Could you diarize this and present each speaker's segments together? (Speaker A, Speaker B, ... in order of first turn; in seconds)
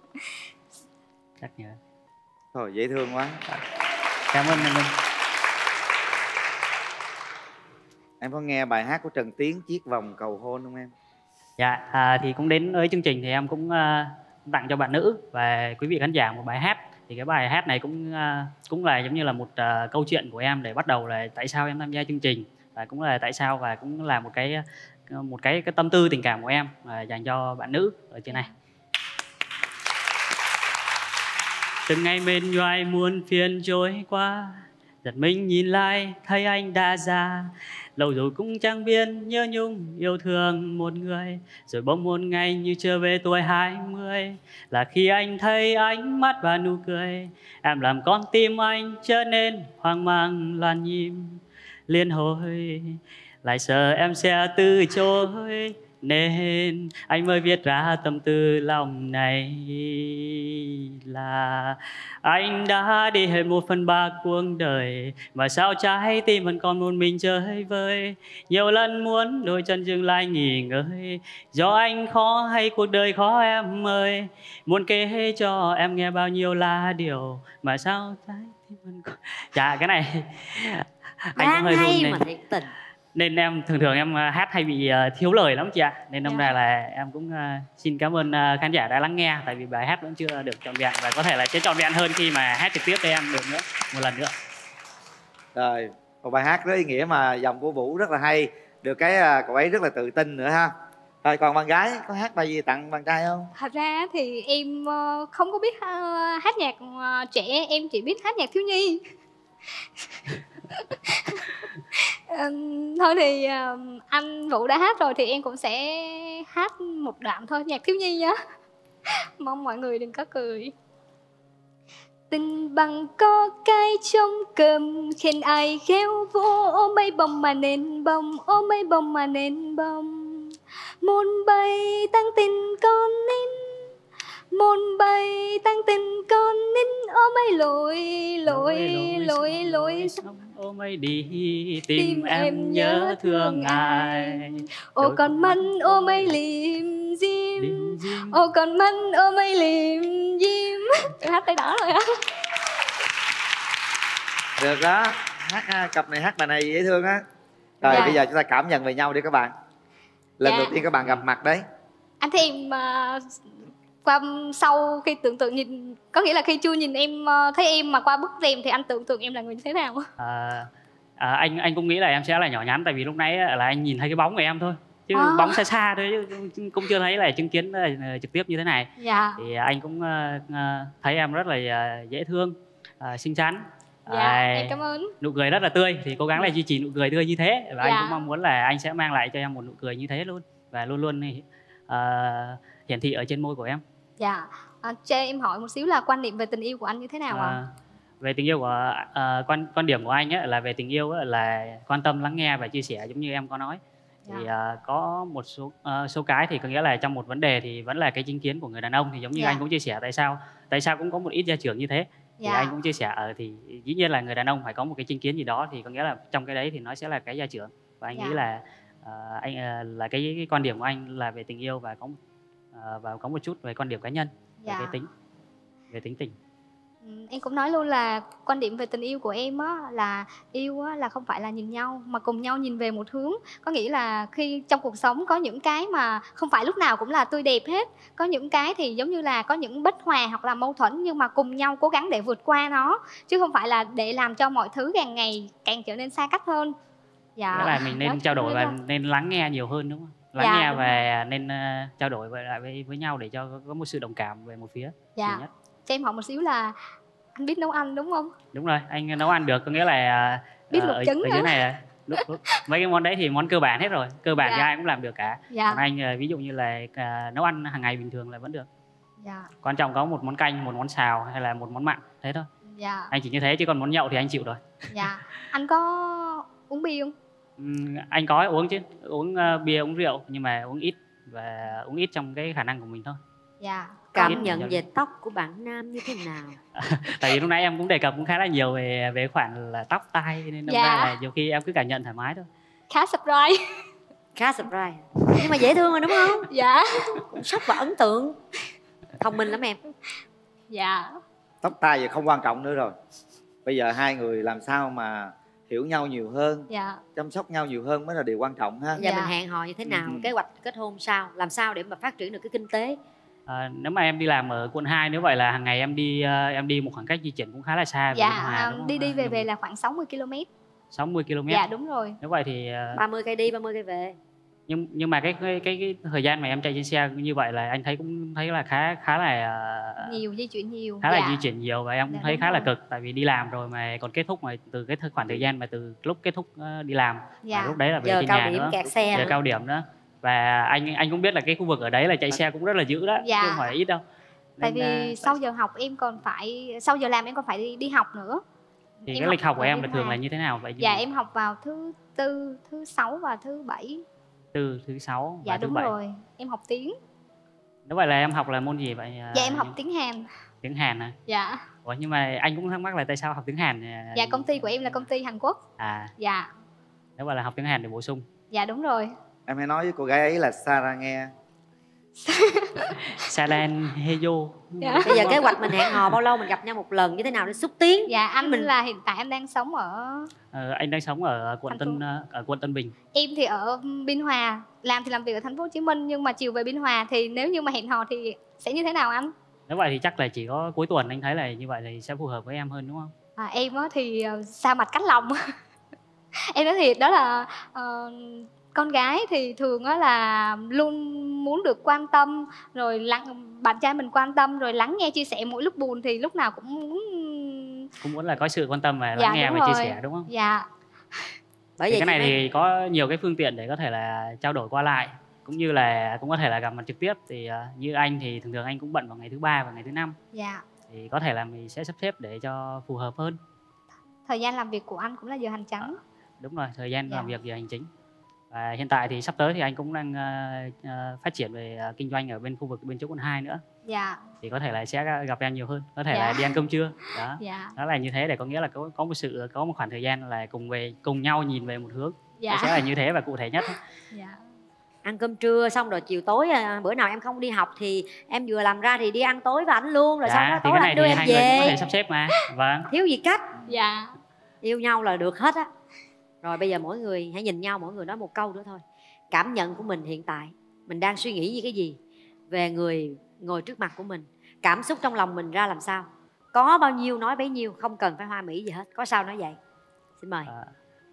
Speaker A: 1.4-1.8, 4.3-4.9, 11.6-28.5, 31.9-82.2, 83.1-94.3, 138.5-146.4, 147.6-148.5, 157.8-158.2, 170.2-193.8, 197.3-197.7, 198.2-222.2, 222.7-225.1, 225.9-226.3, 247.5-255.5, 258.5-268.7, 269.6-272.5, 273.1-274.6, 277.6-283.2, 284.2-284.8, 286.7-292.5, 313.5-319.5, 320.9-321.6, 322.2-323.0, 324.7-330.2, 331.0-344.0, 344.6-345.4, 349.1-351.0, 354.5-355.9, 357.9-359.8, 360.6-361.1, 361.8-365.1, 365.8-366.1, 367.2-368.3, 373.1-376.1, 380.5-382.9, 389.7-393.1, 408.0-410.3, 411.9-420.2, 420.9-423.4, 425.8-427.9, 428.5-433.6, 434.4-443.8, 450.3-452.9
Speaker B: 2.5-3.4, 8.2-10.9, 95.5-100.7, 101.2-103.5, 154.6-157.2, 157.8-159.5, 160.4-161.6, 301.6-302.9, 303.6-309.0, 309.8-310.3, 369.5-371.3
Speaker C: 81.3-82.7, 284.1-286.6, 294.4-296.5, 297.3-298.4, 299.2-299.8, 309.0-313.0, 322.9-324.1, 338.0-339.4, 375.1-378.7, 411.8-412.4, 445.1-451.8, 452.9-453.6, 454.6-455.7, 456.4-462.0, 462.5-469.6, 470.2-470.5
Speaker D: 103.6-109.0, 110.7-118.4, 119.1-120.7, 122.3-133.9, 134.5-140.2, 141.9-152.1, 157.9-158.2, 160.4-160.8, 162.2-163.4, 164.0-170.0, 175.1-175.6, 179.0-179.4, 184.1-185.1, 187.8-188.2, 194.2-197.6, 209.3-209.6, 212.4-212.7, 224.6-225.0, 227.0-246.7, 247.4-248.8, 250.4-251.0, 255.2-256.8, 257.4-258.3, 260.7-261.6, 262.2-262.5, 264.4-264.7, 265.5-265.8, 269.2-269.5, 272.8-273.1, 274.9-277.1, 283.6-284.5, 290.7-291.1, 292.9-293.6, 296.4-297.2, 300.7-301.2, 306.7-307.0, 309.0-309.3, 318.1-320.5, 321.5-322.2, 330.0-331.4, 332.1-332.7, 337.4-337.8, 339.1-339.4, 343.2-343.7, 344.6-348.4, 349.1-350.2, 350.8-354.0, 355.4-356.9, 359.3-360.3, 361.3-361.6, 364.1-365.6, 366.2-366.5, 368.5-369.1, 372.2-372.9, 374.8-375.9, 378.1-380.3, 381.7-382.0, 383.1-389.3, 393.4-395.4, 396.5-407.9, 409.2-411.3, 420.3-420.6, 424.3-426.0, 433.9-434.3, 436.1-436.5, 437.4-437.7, 442.4-442.8, 444.1-444.4, 453.6-454.1